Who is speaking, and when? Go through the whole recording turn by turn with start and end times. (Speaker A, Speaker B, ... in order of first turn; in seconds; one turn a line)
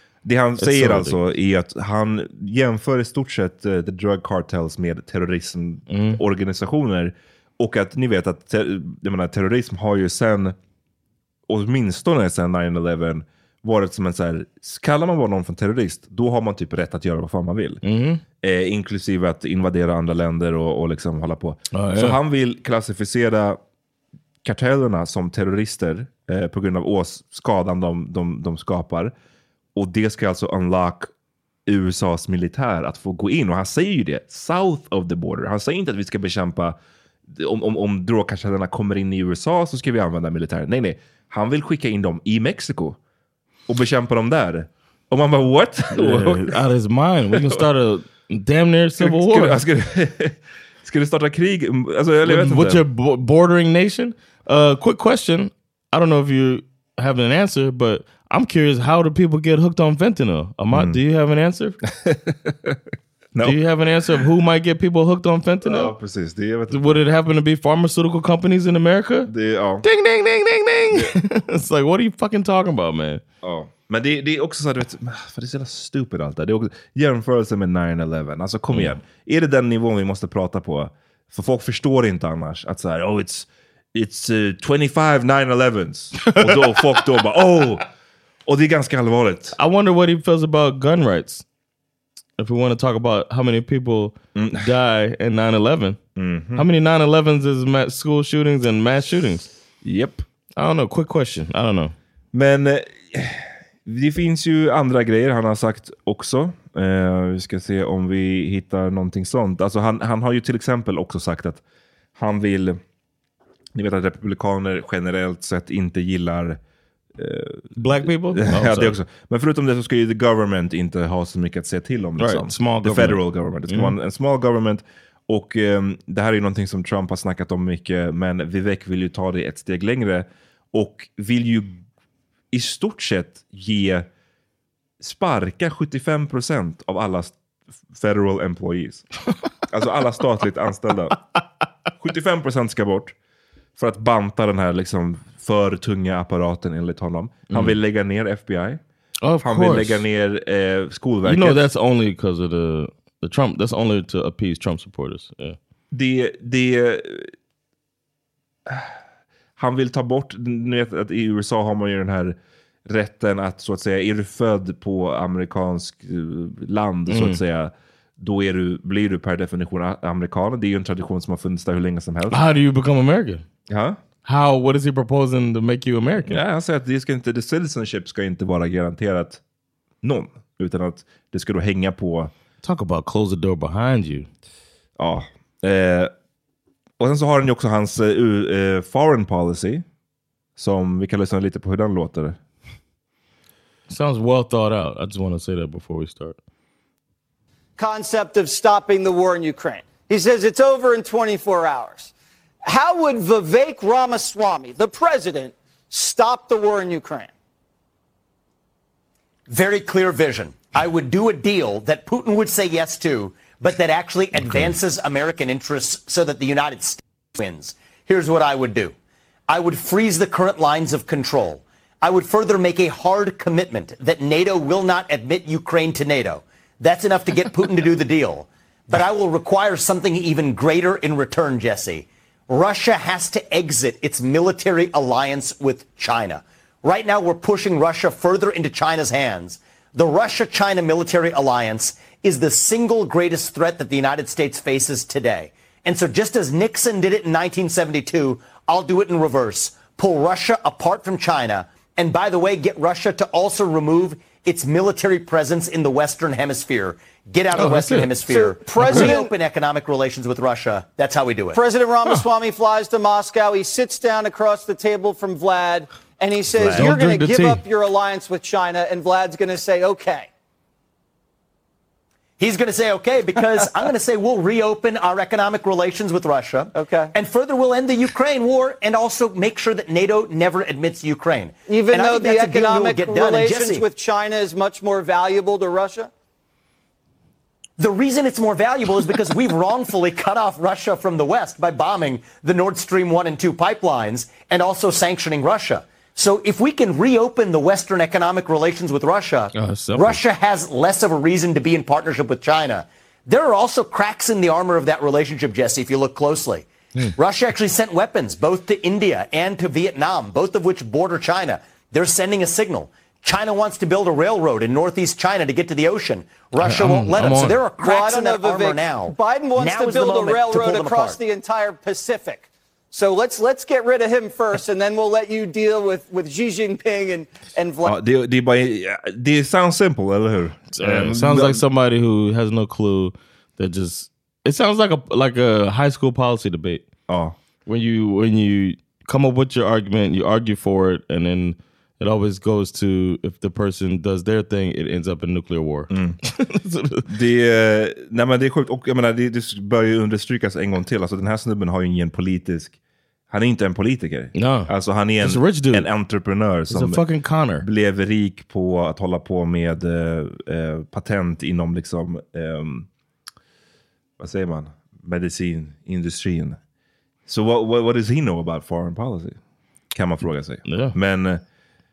Speaker A: 0.2-10.6
Speaker B: 0.6-1.2
Speaker B: 5.9-6.2
Speaker A: 11.5-17.8
Speaker B: 17.8-18.2
Speaker A: 18.4-23.6
Speaker B: 21.7-22.2
Speaker A: 24.4-29.1
Speaker A: 29.7-31.1
Speaker A: 31.6-43.0
Speaker A: 43.7-46.5
Speaker B: 45.9-49.6
Speaker A: 47.3-47.6
Speaker A: 49.0-52.8
Speaker B: 52.2-61.8
Speaker A: 60.7-61.0
Speaker A: 61.9-62.8
Speaker A: 63.3-63.6
Speaker B: 63.4-65.9
Speaker A: 65.6-67.0
Speaker B: 66.7-69.3
Speaker A: 69.2-69.8
Speaker B: 69.8-73.2
Speaker A: 73.4-87.9
Speaker B: 86.2-86.8
Speaker A: 88.5-89.6
Speaker B: 89.5-91.4
Speaker B: 92.4-96.0
Speaker A: 94.3-94.7
Speaker A: 96.2-96.7
Speaker B: 96.5-99.5
Speaker A: 99.8-100.2
Speaker B: 100.5-101.9
Speaker A: 102.3-111.6
Speaker A: 112.1-112.8
Speaker A: 113.7-116.6
Speaker A: 117.2-131.8
Speaker B: 117.8-119.0
Speaker B: 122.2-124.0
Speaker A: 132.5-134.1
Speaker A: 135.0-137.4
Speaker A: 137.9-139.0
Speaker A: 139.7-141.2
Speaker A: 142.0-143.1
Speaker A: 143.8-148.8
Speaker B: 147.5-147.7
Speaker B: 149.2-150.0
Speaker A: 149.4-151.6
Speaker B: 151.2-155.6
Speaker A: 155.9-157.3
Speaker A: 158.7-159.0
Speaker A: 159.6-172.4
Speaker B: 167.1-167.4
Speaker B: 172.3-173.4
Speaker A: 173.7-174.0
Speaker B: 174.2-176.4
Speaker A: 176.2-179.4
Speaker A: 180.0-182.3
Speaker B: 182.6-184.3
Speaker A: 185.0-186.1
Speaker A: 187.0-189.8
Speaker A: 190.6-192.4
Speaker B: 193.9-196.4
Speaker C: 197.8-202.1
Speaker C: 202.7-207.3
Speaker D: 209.5-218.9
Speaker A: 214.4-214.7
Speaker D: 219.5-261.6
Speaker B: 257.5-258.1
Speaker C: 258.3-259.3
Speaker B: 258.9-259.1
Speaker C: 261.5-270.3
Speaker B: 266.5-267.6
Speaker A: 266.6-266.9
Speaker D: 272.4-283.9
Speaker C: 276.7-277.1
Speaker C: 281.7-286.1
Speaker D: 287.8-321.2
Speaker B: 299.5-300.2
Speaker B: 316.6-317.6
Speaker C: 317.8-327.9
Speaker A: 327.8-331.6
Speaker B: 330.8-336.9
Speaker A: 337.1-337.4
Speaker B: 337.6-347.0
Speaker A: 345.9-346.2
Speaker A: 347.1-352.8
Speaker A: 353.3-357.0
Speaker B: 354.3-355.9
Speaker B: 356.7-357.6
Speaker A: 357.6-362.9
Speaker A: 364.2-366.6
Speaker A: 367.3-369.4
Speaker A: 369.9-371.4
Speaker B: 370.6-370.9